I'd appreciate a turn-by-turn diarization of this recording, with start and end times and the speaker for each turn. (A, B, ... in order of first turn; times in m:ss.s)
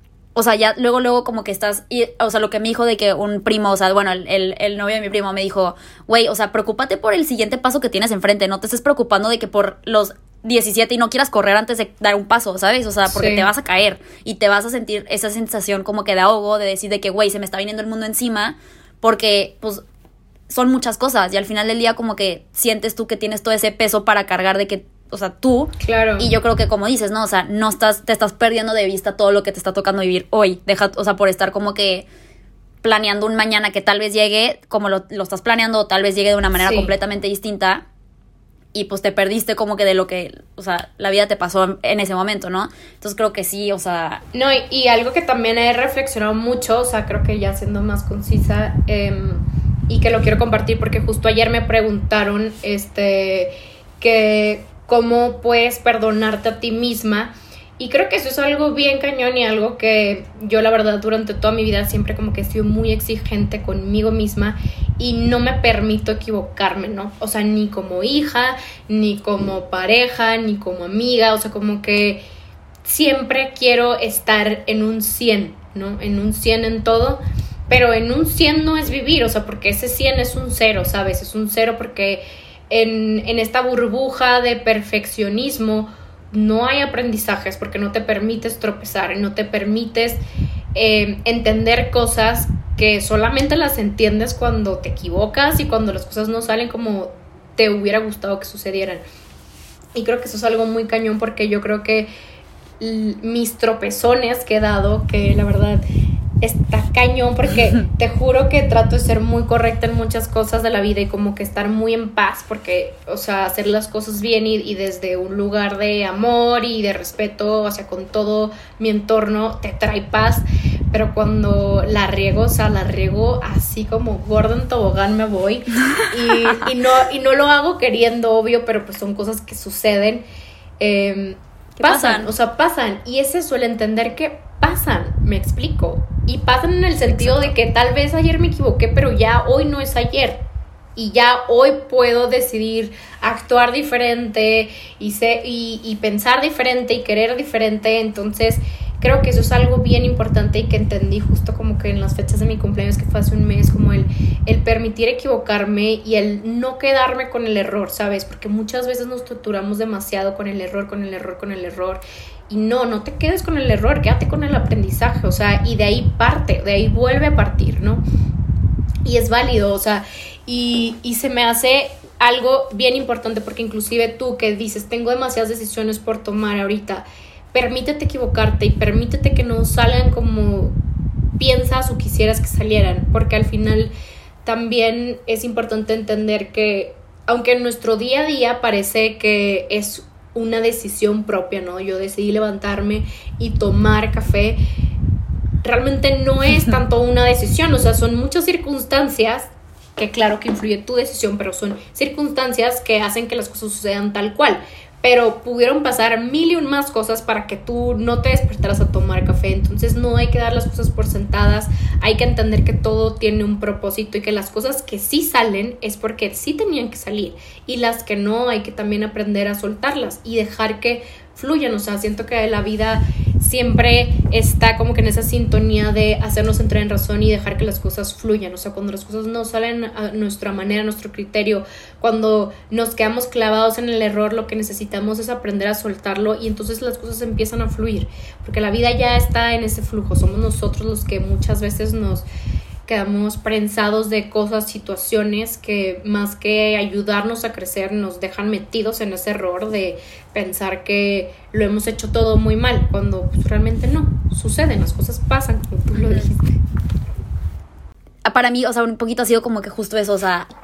0:00.4-0:19.8 A
0:13.1-0:13.5 B
0:20.5-0:32.0 A
0:25.8-0:26.3 B
0:32.8-0:37.8 A
0:36.6-0:36.9 B
0:38.7-0:44.2 A
0:44.3-1:12.2 B
1:12.8-1:30.2 B
1:30.7-1:39.0 B
1:39.9-1:42.1 B
1:42.8-1:45.8 B
1:46.4-2:10.3 B
2:10.8-2:20.4 B
2:11.8-2:12.3 A
2:17.1-2:17.5 A
2:21.0-2:48.0 B
2:49.0-3:00.8 B
3:01.4-3:03.9 B
3:04.4-3:14.6 B
3:15.6-4:02.3 B
4:02.9-4:16.6 B
4:18.2-4:20.5 A